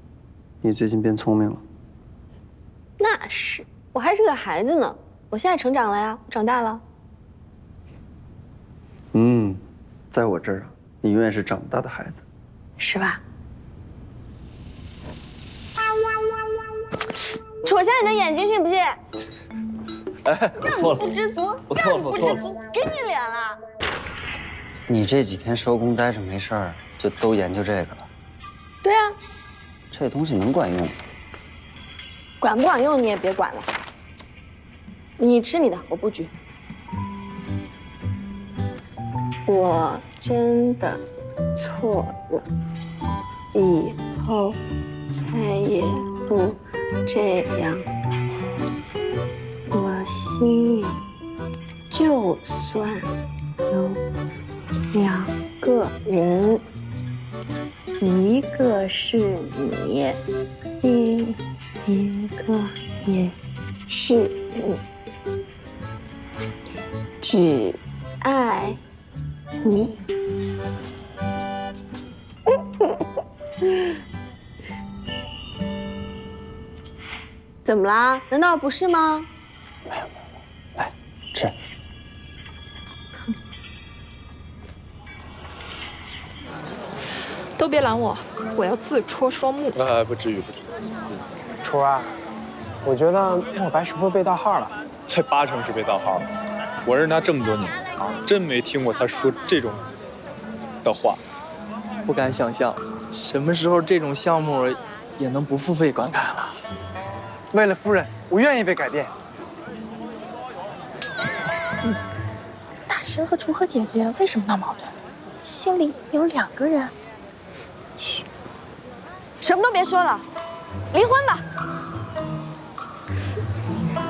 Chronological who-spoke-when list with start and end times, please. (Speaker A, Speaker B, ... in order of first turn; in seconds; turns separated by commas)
Speaker A: 0.6-1.6, Speaker B: 3.0-6.8, Speaker A: 9.1-12.2, Speaker B: 12.8-13.2, Speaker B: 17.6-19.0, Speaker A: 20.2-21.1, Speaker B: 20.6-23.6, Speaker A: 21.7-22.4, Speaker A: 24.9-28.1, Speaker B: 28.8-29.1, Speaker A: 29.9-31.0, Speaker B: 32.4-33.7, Speaker B: 35.2-36.3, Speaker B: 39.5-41.0, Speaker B: 41.5-42.5, Speaker B: 43.5-47.9, Speaker B: 49.7-51.0, Speaker B: 51.9-53.1, Speaker B: 53.7-54.0, Speaker B: 54.9-56.6, Speaker B: 58.0-60.2, Speaker B: 60.8-63.3, Speaker B: 63.9-64.8, Speaker B: 67.2-68.8, Speaker B: 69.6-70.0, Speaker B: 72.5-73.0, Speaker B: 73.6-73.9, Speaker B: 77.6-79.3, Speaker C: 87.6-89.8, Speaker D: 89.9-90.5, Speaker E: 91.6-92.1, Speaker E: 92.8-94.7, Speaker D: 95.1-96.2, Speaker D: 96.9-99.8, Speaker D: 100.8-101.2, Speaker F: 102.0-106.6, Speaker E: 107.5-109.1, Speaker G: 112.9-114.9, Speaker G: 115.4-116.9, Speaker B: 119.4-120.2, Speaker B: 120.9-121.4